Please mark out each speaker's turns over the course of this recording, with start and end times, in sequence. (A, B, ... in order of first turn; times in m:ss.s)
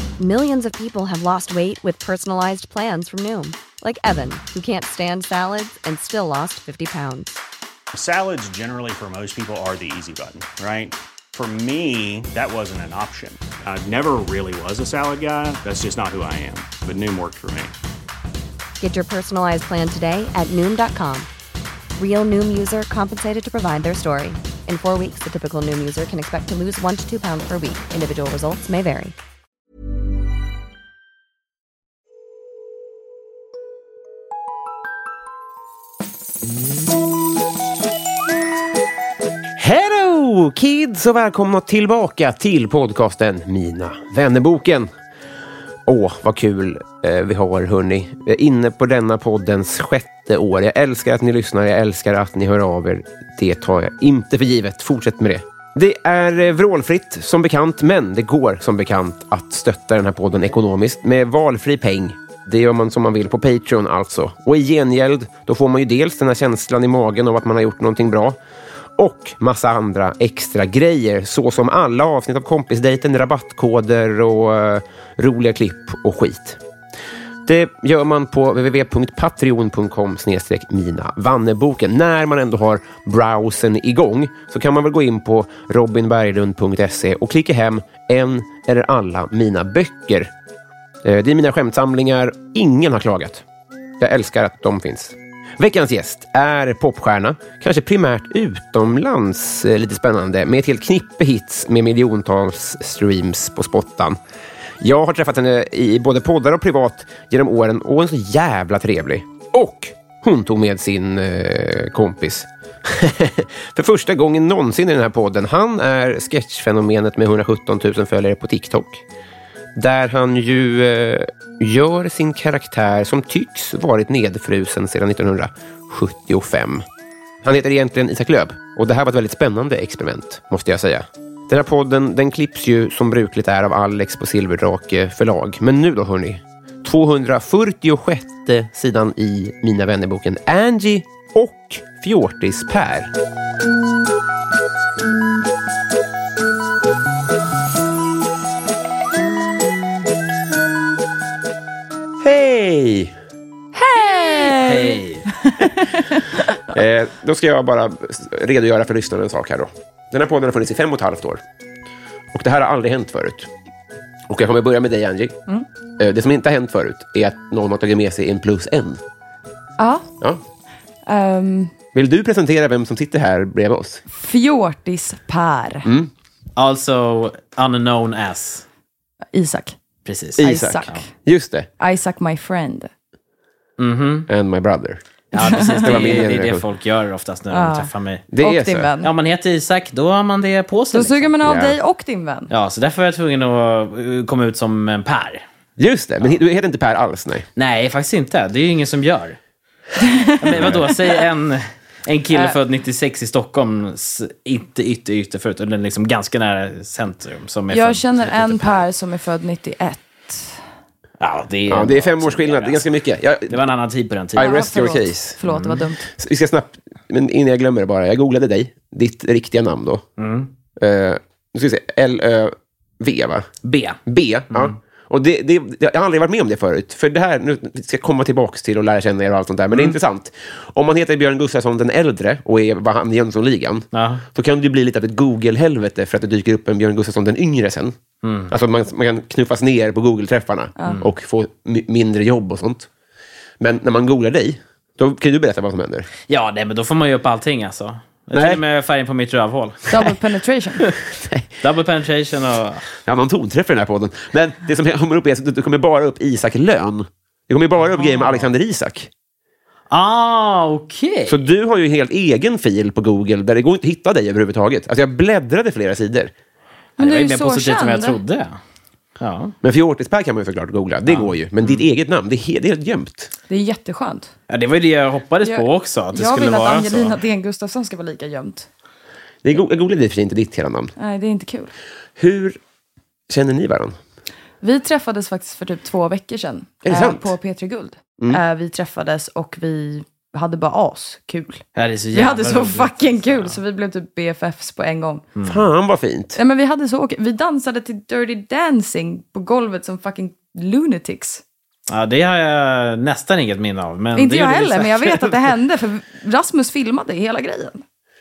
0:00.2-0:07.4 A
0:07.9-0:17.7 B
0:18.8-0:21.3 A
0:22.0-0:29.1 A
0:39.6-0:44.9 C
0:45.8-1:08.4 C
1:09.0-1:16.6 C
1:17.4-1:30.3 C
1:31.0-1:33.4 C
1:34.0-1:44.2 C
1:44.8-1:59.0 C
1:59.8-2:06.8 C
2:07.4-2:23.1 C
2:32.2-2:33.1 C
2:33.7-2:36.6 D
2:34.5-2:35.3 E
2:36.7-2:41.4 C
2:42.3-2:43.5 C
2:44.3-2:45.4 C
2:46.0-2:49.0 C
2:49.8-2:50.1 D
2:51.0-2:51.7 D
2:51.9-2:54.0 C
2:54.1-2:55.9 D
2:55.8-2:56.1 C
2:56.6-2:58.6 E
2:59.3-2:59.8 D
3:00.0-3:00.5 E
3:00.4-3:01.7 C
3:00.4-3:01.1 D
3:01.8-3:02.9 D
3:03.8-3:04.3 E
3:04.3-3:05.0 C
3:05.3-3:08.2 E
3:05.4-3:06.2 D
3:05.6-3:06.6 C
3:07.5-3:09.1 D
3:08.3-3:08.9 C
3:09.0-3:11.3 E
3:10.9-3:12.5 D
3:11.4-3:11.8 C
3:12.5-3:15.4 E
3:15.8-3:17.5 C
3:17.6-3:19.4 E
3:20.0-3:21.2 D
3:20.4-3:28.8 E
3:20.6-3:20.8 C
3:27.7-3:30.6 D
3:31.2-3:32.8 E
3:31.7-3:33.6 C
3:33.5-3:34.6 E
3:34.4-3:35.4 C
3:34.4-3:36.0 D
3:35.4-3:35.8 E
3:36.1-3:40.0 C
3:40.2-3:40.5 E
3:40.8-3:43.5 C
3:43.6-3:44.0 E
3:44.0-3:58.0 C
3:53.9-3:54.2 E
3:58.2-3:58.5 E
3:58.5-4:02.9 C
4:03.6-4:06.1 C
4:06.3-4:10.0 E
4:08.3-4:08.6 C
4:09.9-4:10.8 D
4:11.2-4:11.5 C
4:11.6-4:12.8 E
4:13.0-4:19.1 C
4:19.9-4:21.4 E
4:21.3-4:26.3 C
4:27.0-4:28.6 E
4:27.0-4:28.2 D
4:29.2-4:29.5 E
4:29.6-4:33.3 C
4:31.1-4:31.8 E
4:33.5-4:34.3 D
4:34.5-4:37.2 E
4:35.4-4:38.7 D
4:39.4-4:40.9 C
4:41.0-4:41.7 D
4:42.2-4:42.6 C
4:43.3-4:44.0 C
4:44.6-4:55.2 D
4:46.8-4:47.3 C
4:51.8-4:53.6 E
4:55.4-4:56.4 C
4:56.4-5:01.4 D
5:01.9-5:05.5 E
5:04.2-5:07.8 D